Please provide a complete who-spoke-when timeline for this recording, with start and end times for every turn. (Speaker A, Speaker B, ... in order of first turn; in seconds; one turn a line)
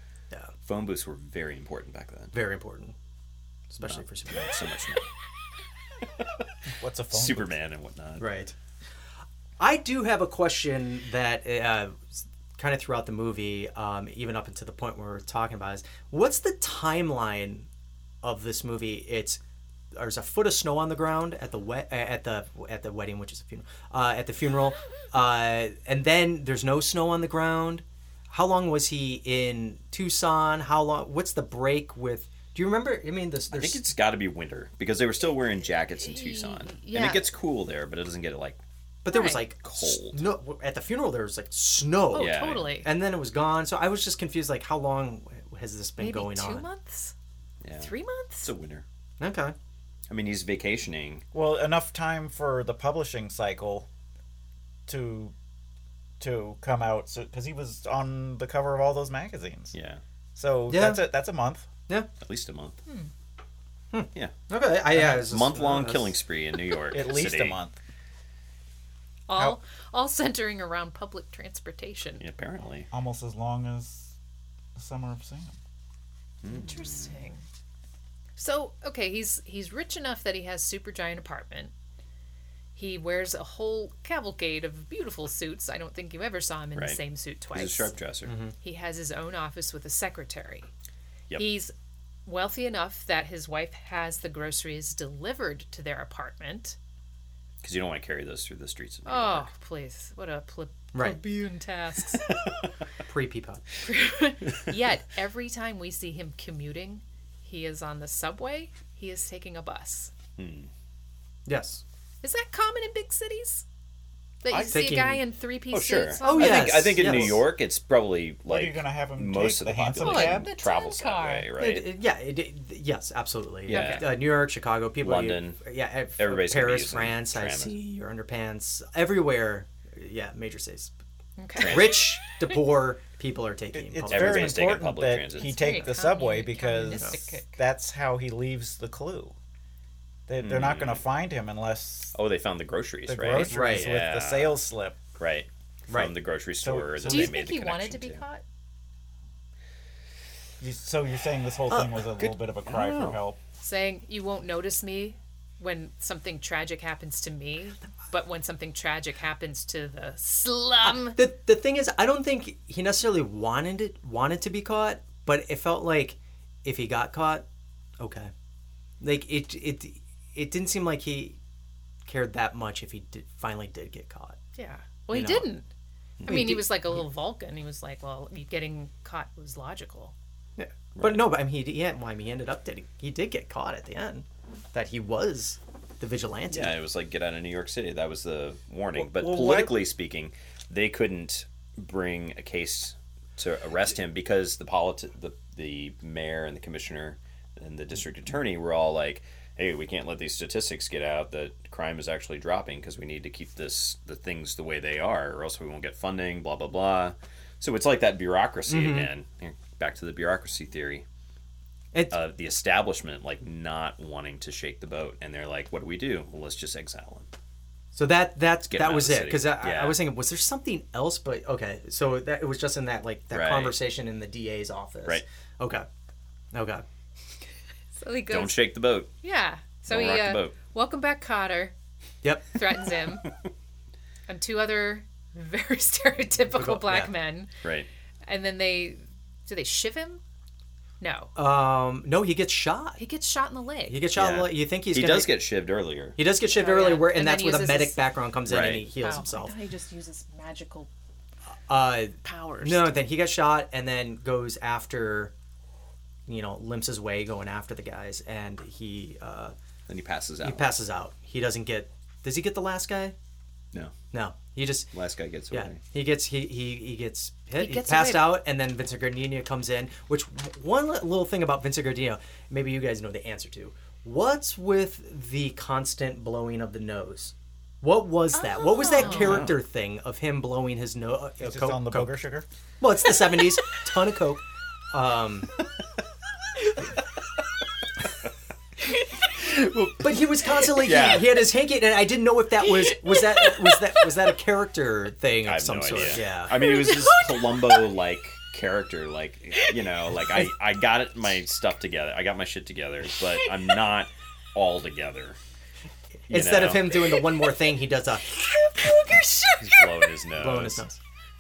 Speaker A: 0.6-2.4
Speaker B: 2.3-3.0
Speaker B: 3.7-4.6
Speaker A: 3.9-5.0
Speaker C: 6.7-7.5
Speaker A: 7.1-8.3
Speaker B: 8.2-8.5
Speaker B: 9.6-17.7
Speaker B: 18.2-19.4
Speaker B: 19.9-33.8
Speaker A: 33.5-38.6
Speaker D: 36.0-37.2
Speaker B: 39.0-46.7
Speaker D: 39.1-39.5
Speaker A: 39.6-40.2
Speaker D: 42.1-42.9
Speaker A: 42.1-42.7
Speaker D: 46.0-47.1
Speaker A: 47.6-48.8
Speaker D: 47.8-48.5
Speaker B: 49.2-49.5
Speaker A: 50.1-51.2
Speaker C: 51.3-53.9
Speaker C: 54.9-55.3
Speaker C: 56.2-59.7
Speaker A: 59.7-60.0
Speaker C: 60.4-61.7
Speaker B: 60.7-61.0
Speaker A: 62.2-62.8
Speaker B: 63.9-66.2
Speaker A: 64.9-67.6
Speaker C: 66.9-67.8
Speaker D: 69.3-72.2
Speaker A: 72.2-72.9
Speaker C: 72.9-74.2
Speaker C: 74.8-75.6
Speaker A: 76.4-77.2
Speaker D: 76.5-77.4
Speaker D: 78.4-81.7
Speaker D: 82.8-87.9
Speaker A: 86.8-87.0
Speaker A: 87.5-88.3
Speaker B: 88.3-88.5
Speaker D: 88.6-90.7
Speaker D: 91.3-91.7
Speaker D: 92.2-96.8
Speaker A: 97.6-99.5
Speaker D: 99.1-102.3
Speaker B: 100.9-101.2
Speaker B: 103.1-103.6
Speaker D: 103.8-110.1
Speaker A: 110.4-110.7
Speaker B: 111.5-111.8
Speaker D: 112.2-113.7
Speaker D: 114.4-117.2
Speaker A: 114.5-114.9
Speaker B: 114.7-115.2
Speaker A: 115.7-121.9
Speaker B: 116.2-117.5
Speaker C: 118.5-120.5
Speaker D: 120.0-121.5
Speaker B: 121.6-130.9
Speaker A: 123.7-124.2
Speaker D: 123.7-124.1
Speaker A: 125.0-125.6
Speaker A: 126.2-127.8
Speaker D: 131.4-132.2
Speaker A: 131.6-132.2
Speaker B: 131.6-134.8
Speaker C: 133.7-139.4
Speaker A: 134.1-135.9
Speaker D: 135.3-137.6
Speaker B: 136.9-137.2
Speaker C: 140.3-142.2
Speaker A: 140.4-141.1
Speaker A: 142.1-144.6
Speaker C: 143.1-145.0
Speaker B: 143.3-143.9
Speaker A: 145.2-148.2
Speaker C: 146.6-147.4
Speaker D: 147.1-148.4
Speaker C: 150.6-153.4
Speaker A: 152.2-153.2
Speaker D: 153.6-161.2
Speaker B: 160.8-167.4
Speaker B: 168.0-168.3
Speaker B: 169.0-171.4
Speaker B: 172.1-174.4
Speaker D: 174.6-175.7
Speaker B: 175.1-175.5
Speaker A: 176.2-176.6
Speaker B: 176.2-177.0
Speaker D: 176.2-180.1
Speaker B: 180.6-186.8
Speaker A: 180.9-181.3
Speaker A: 186.5-211.1
Speaker C: 188.9-189.8
Speaker B: 208.7-209.1
Speaker A: 212.1-217.3
Speaker B: 217.9-225.9
Speaker A: 218.7-220.0
Speaker A: 223.3-223.8
Speaker B: 226.5-226.8
Speaker D: 228.0-228.7
Speaker A: 228.3-229.1
Speaker D: 229.2-231.7
Speaker A: 229.9-230.6
Speaker B: 232.2-232.5
Speaker D: 232.5-233.3
Speaker D: 234.3-237.5
Speaker B: 236.5-237.1
Speaker A: 237.6-237.9
Speaker D: 238.3-240.2
Speaker D: 241.0-241.3
Speaker B: 241.3-243.0
Speaker D: 243.0-244.0
Speaker B: 243.9-245.4
Speaker A: 244.1-246.2
Speaker B: 246.2-249.6
Speaker D: 246.5-248.0
Speaker A: 248.5-248.9
Speaker D: 249.0-250.9
Speaker B: 251.7-255.3
Speaker D: 252.2-253.0
Speaker B: 256.3-259.6
Speaker A: 259.9-260.7
Speaker B: 260.4-263.1
Speaker B: 264.1-264.9
Speaker A: 264.9-265.8
Speaker B: 265.5-282.1
Speaker D: 267.6-268.4
Speaker D: 278.4-279.5
Speaker A: 279.1-279.6
Speaker C: 281.4-282.5
Speaker B: 282.8-284.4
Speaker B: 284.9-285.5
Speaker A: 289.4-291.5
Speaker B: 290.0-296.6
Speaker D: 292.9-294.0
Speaker A: 295.4-305.4
Speaker D: 296.5-297.9
Speaker B: 306.3-308.3
Speaker A: 306.3-307.1
Speaker D: 308.3-310.1
Speaker A: 309.6-310.9
Speaker B: 310.4-311.0